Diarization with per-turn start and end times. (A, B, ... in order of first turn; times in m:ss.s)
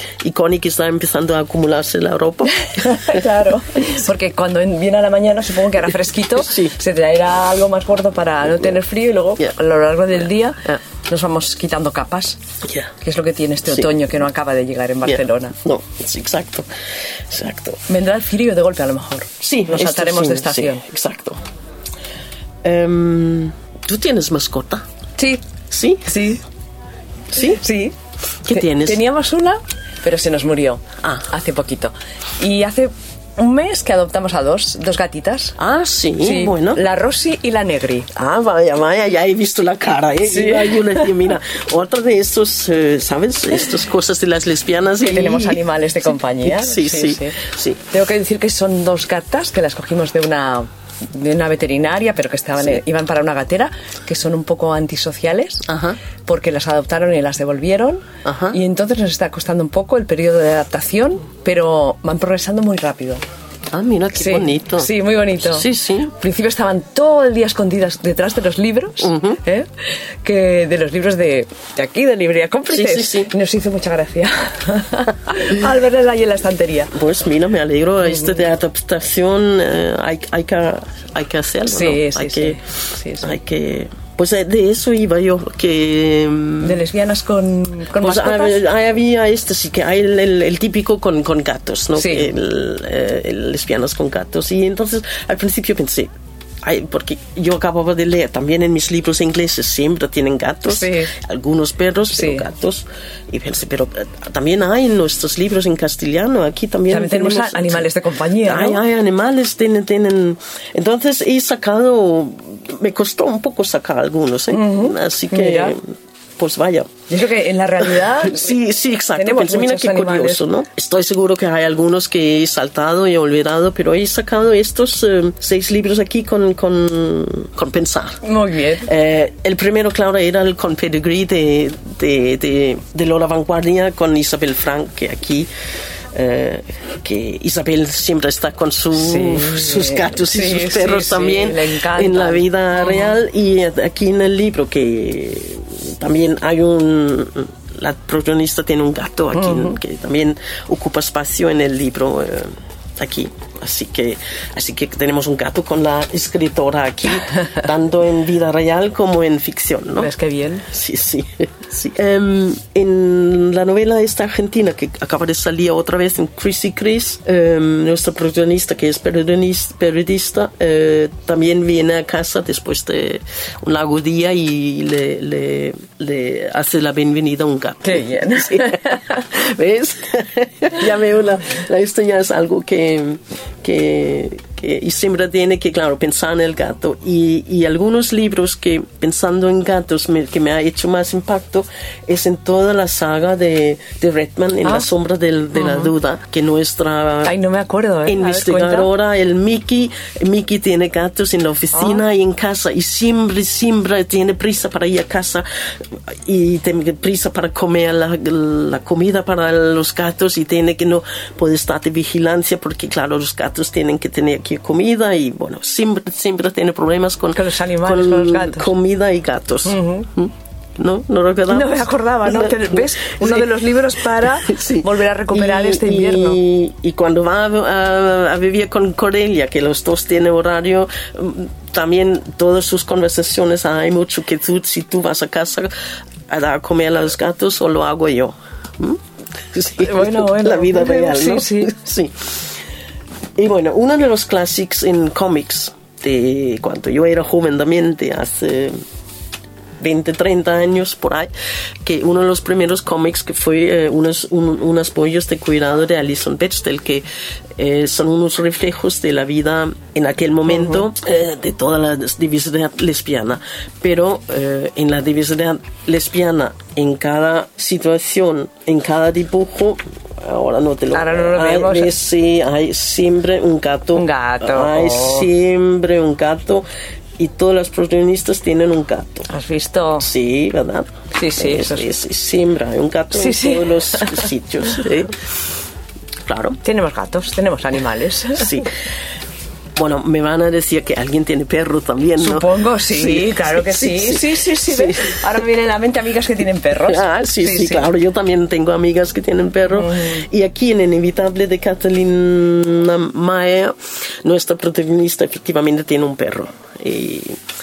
0:00.2-0:03.2 A
0:02.5-0:12.4 B
0:06.3-0:06.8 A
0:12.6-0:12.9 A
0:13.0-0:15.6 B
0:15.0-0:16.7 A
0:17.3-0:17.8 A
0:17.9-0:20.8 B
0:19.4-0:21.4 A
0:22.6-0:24.8 A
0:25.2-0:25.4 B
0:25.7-0:26.1 A
0:26.0-0:26.4 B
0:27.3-0:27.6 A
0:27.3-0:28.0 B
0:28.4-0:29.0 A
0:28.5-0:35.6 B
0:35.6-0:36.8 A
0:36.2-0:38.1 B
0:38.1-0:47.8 A
0:40.2-0:41.1 B
0:45.0-0:55.7 B
0:55.6-0:56.0 A
0:56.3-1:03.2 B
0:58.2-0:58.6 A
1:03.7-1:06.1 A
1:04.2-1:16.9 B
1:09.0-1:09.4 A
1:12.7-1:13.3 A
1:16.9-1:22.6 A
1:18.1-1:18.4 B
1:21.7-1:23.4 B
1:23.2-1:26.8 A
1:26.6-1:28.6 B
1:28.0-1:36.1 A
1:32.0-1:32.3 B
1:36.6-1:47.9 A
1:40.7-1:41.1 B
1:42.1-1:42.5 B
1:46.9-1:48.8 B
1:48.4-1:56.9 A
1:54.5-1:55.8 B
1:57.1-1:58.6 B
1:58.0-2:08.2 A
1:59.2-2:00.4 B
2:08.2-2:08.9 B
2:08.8-2:15.5 A
2:16.1-2:40.1 A
2:18.9-2:23.1 B
2:29.3-2:29.8 B
2:40.0-2:40.7 B
2:40.7-3:17.3 A
2:57.8-2:59.2 B
3:15.6-3:15.9 B
3:17.2-3:18.9 B
3:18.1-3:55.7 A
3:21.7-3:22.0 B
3:37.3-3:38.7 B
3:39.6-3:40.1 B
3:41.5-3:46.4 B
3:56.3-3:59.0 A
3:59.5-4:02.4 A
3:59.8-4:01.7 B
4:03.4-4:08.8 A
4:09.8-4:11.3 A
4:11.8-4:17.0 A
4:17.6-4:36.7 A
4:20.5-4:20.8 B
4:30.9-4:31.9 B
4:33.9-4:35.3 B
4:37.2-4:39.3 A
4:39.3-4:40.1 B
4:40.0-4:45.1 A
4:41.1-4:41.9 B
4:43.1-4:44.8 B
4:46.3-4:46.6 A
4:46.6-4:48.7 B
4:48.4-4:48.7 A
4:49.8-4:55.4 A
4:52.2-4:57.9 B
4:56.8-5:07.4 A
4:59.7-5:00.2 B